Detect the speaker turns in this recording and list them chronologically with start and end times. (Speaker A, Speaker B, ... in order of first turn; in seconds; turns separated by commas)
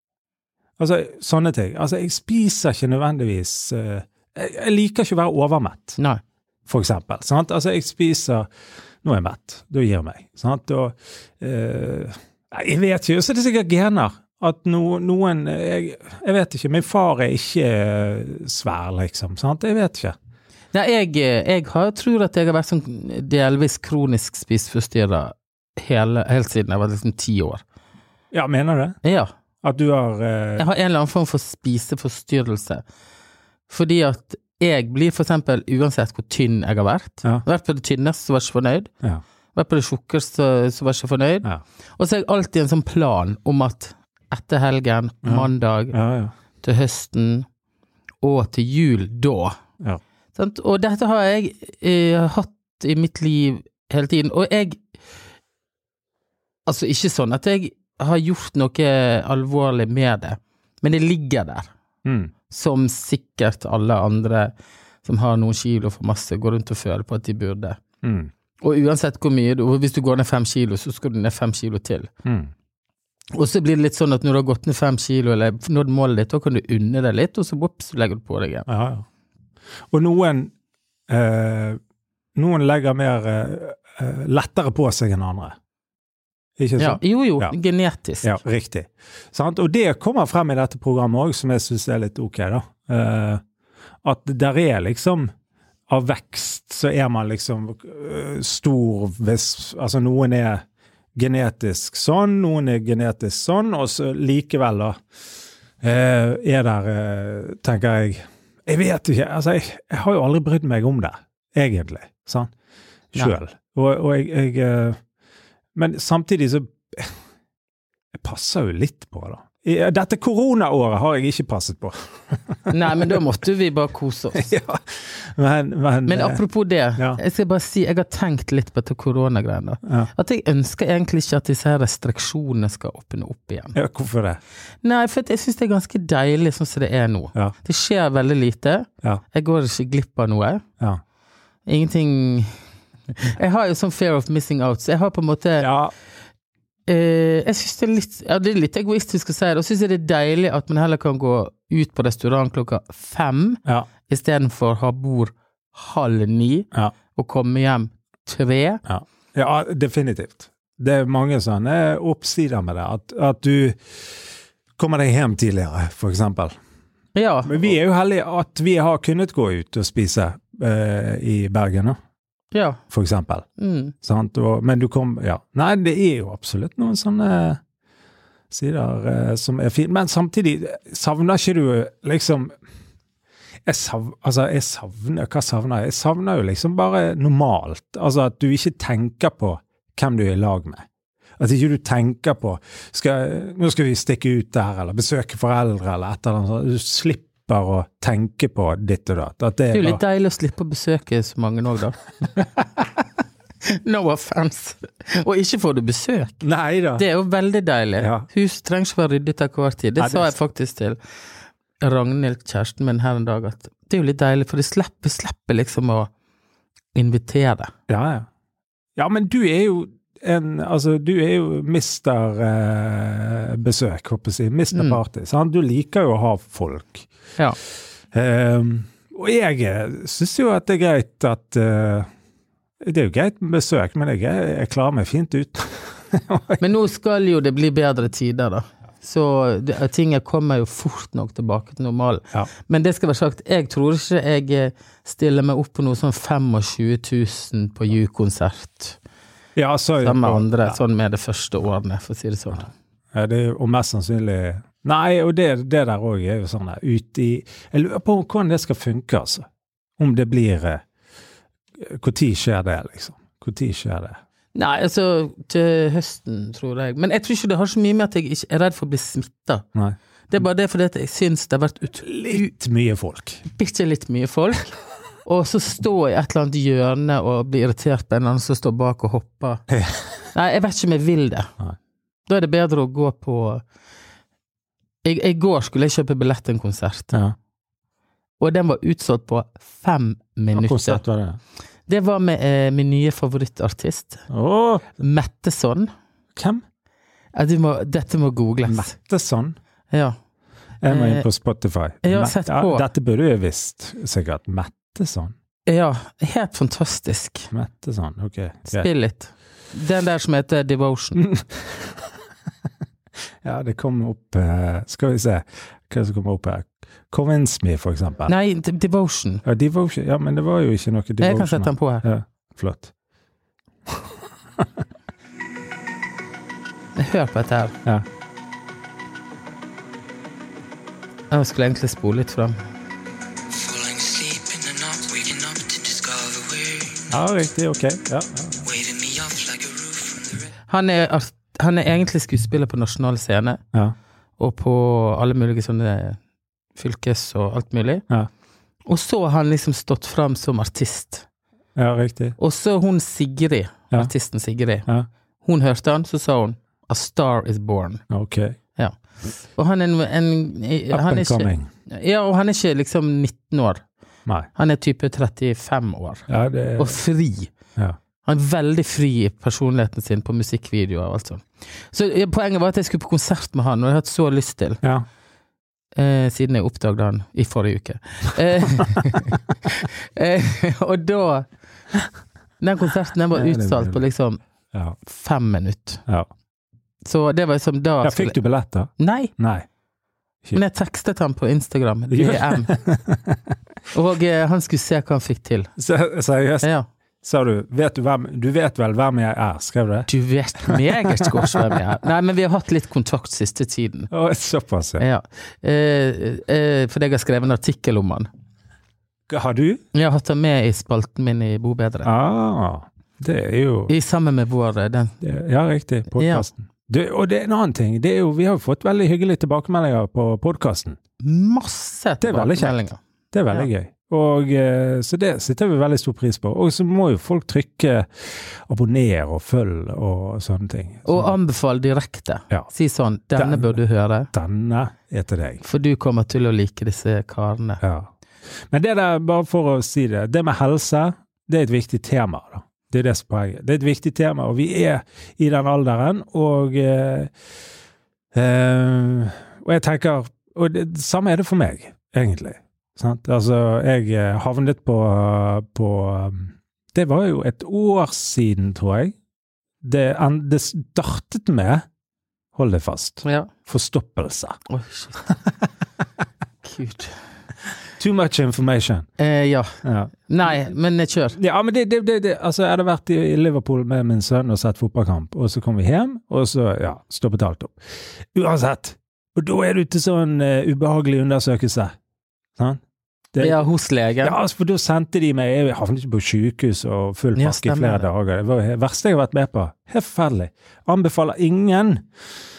Speaker A: 0.8-6.0, Speaker A: 6.7-8.5, Speaker A: 9.0-20.1, Speaker B: 20.7-27.6, Speaker A: 28.3-29.0, Speaker B: 29.0-29.3, Speaker A: 29.6-30.7, Speaker B: 30.6-32.8, Speaker B: 33.7-38.9, Speaker B: 39.5-46.0, Speaker A: 45.2-46.3, Speaker B: 46.6-47.5, Speaker B: 48.2-49.6, Speaker B: 50.3-54.8, Speaker B: 56.6-61.7, Speaker A: 62.0-62.3, Speaker B: 62.5-64.5, Speaker B: 65.0-67.8, Speaker A: 68.0-68.3, Speaker B: 68.6-72.1, Speaker A: 72.2-72.5, Speaker B: 73.3-78.7, Speaker A: 78.7-79.0, Speaker A: 79.9-80.5, Speaker A: 81.1-81.8, Speaker A: 82.3-85.6, Speaker A: 86.6-87.5, Speaker B: 86.8-88.3, Speaker A: 88.2-93.4, Speaker A: 94.0-95.3, Speaker A: 95.9-100.6, Speaker A: 101.2-105.0, Speaker A: 105.8-112.5, Speaker A: 113.1-115.0, Speaker A: 115.8-117.2, Speaker A: 118.2-123.2, Speaker B: 122.7-124.5, Speaker A: 124.3-126.4, Speaker B: 126.1-133.8, Speaker A: 129.8-130.1, Speaker A: 133.7-134.4, Speaker B: 134.8-140.6, Speaker B: 141.7-142.5, Speaker B: 143.1-145.7, Speaker A: 145.6-145.9, Speaker B: 146.9-158.8, Speaker A: 158.8-163.8, Speaker A: 164.8-166.5, Speaker B: 167.1-167.7, Speaker A: 167.4-172.0, Speaker B: 172.5-172.8, Speaker A: 172.9-173.4, Speaker B: 173.6-173.9, Speaker A: 174.0-177.6, Speaker A: 178.5-182.5, Speaker A: 183.7-190.8, Speaker A: 191.4-200.0, Speaker B: 199.7-202.5, Speaker B: 203.6-206.4, Speaker A: 206.4-207.0, Speaker B: 207.0-211.0, Speaker A: 208.0-208.2, Speaker A: 210.0-210.3, Speaker B: 211.8-216.1, Speaker B: 216.9-217.7, Speaker A: 217.9-218.3, Speaker A: 218.9-227.1, Speaker B: 224.7-225.0, Speaker A: 228.1-232.1, Speaker A: 232.8-236.6, Speaker B: 236.6-249.0, Speaker A: 249.6-250.8, Speaker B: 250.0-252.7, Speaker A: 253.1-259.4, Speaker A: 260.0-260.8, Speaker A: 261.8-264.2, Speaker B: 264.5-269.6, Speaker B: 270.3-272.5, Speaker A: 272.0-273.4, Speaker B: 273.5-279.6, Speaker A: 279.7-280.1, Speaker B: 280.3-281.5, Speaker B: 282.3-283.6, Speaker B: 285.0-287.1, Speaker B: 288.4-291.0, Speaker A: 290.5-291.4, Speaker B: 291.9-294.2, Speaker A: 294.3-294.9, Speaker B: 295.0-295.9, Speaker A: 296.4-296.6, Speaker B: 297.4-298.9, Speaker A: 298.6-299.6, Speaker A: 300.8-305.3, Speaker B: 300.9-301.2, Speaker B: 302.0-302.9, Speaker B: 305.6-307.5, Speaker A: 307.5-308.9, Speaker B: 308.7-311.2, Speaker A: 311.3-312.1, Speaker A: 313.4-318.3, Speaker B: 318.3-319.4, Speaker A: 319.4-322.9, Speaker B: 321.2-322.0, Speaker A: 323.9-324.7, Speaker B: 326.9-327.8, Speaker B: 331.3-332.6, Speaker C: 333.6-337.1, Speaker A: 337.1-338.7, Speaker C: 338.7-340.3, Speaker B: 340.7-343.6, Speaker B: 344.4-346.2, Speaker B: 346.8-348.0, Speaker B: 348.9-351.2, Speaker A: 351.8-352.4, Speaker B: 352.4-354.9, Speaker B: 355.4-358.0, Speaker A: 358.1-358.6, Speaker B: 359.5-363.8, Speaker A: 360.9-361.7, Speaker B: 364.6-367.5, Speaker A: 366.3-367.0, Speaker B: 368.2-374.8, Speaker B: 375.9-381.5, Speaker B: 382.6-384.4, Speaker A: 383.3-384.0, Speaker B: 385.0-386.0, Speaker B: 387.0-388.4, Speaker A: 388.0-389.6, Speaker B: 389.0-389.3, Speaker B: 390.5-392.7, Speaker A: 392.1-393.6, Speaker B: 393.9-395.7, Speaker A: 395.8-396.7, Speaker B: 396.6-396.9, Speaker A: 397.2-400.1, Speaker B: 400.1-404.1, Speaker A: 400.6-401.8, Speaker A: 404.1-405.0, Speaker B: 405.0-408.3, Speaker A: 409.3-409.8, Speaker B: 409.9-412.1, Speaker A: 412.0-413.9, Speaker B: 413.9-415.1, Speaker A: 415.2-421.0, Speaker B: 416.1-416.5, Speaker B: 421.2-423.0, Speaker A: 422.2-422.8, Speaker A: 423.3-431.4, Speaker B: 431.1-434.3, Speaker A: 433.4-433.8, Speaker A: 434.3-435.6, Speaker B: 435.6-437.8, Speaker A: 437.8-438.1, Speaker A: 438.7-447.3, Speaker A: 448.3-459.1, Speaker A: 459.8-461.8, Speaker A: 462.5-464.6, Speaker B: 463.2-463.5, Speaker B: 464.7-465.3, Speaker A: 465.3-465.6, Speaker B: 466.6-467.2, Speaker A: 468.0-469.1, Speaker B: 469.2-469.7, Speaker A: 469.8-470.1, Speaker B: 470.3-471.4, Speaker A: 471.4-477.8, Speaker A: 478.3-481.9, Speaker A: 483.3-483.6, Speaker B: 483.4-484.4, Speaker A: 484.2-492.1, Speaker B: 487.4-488.1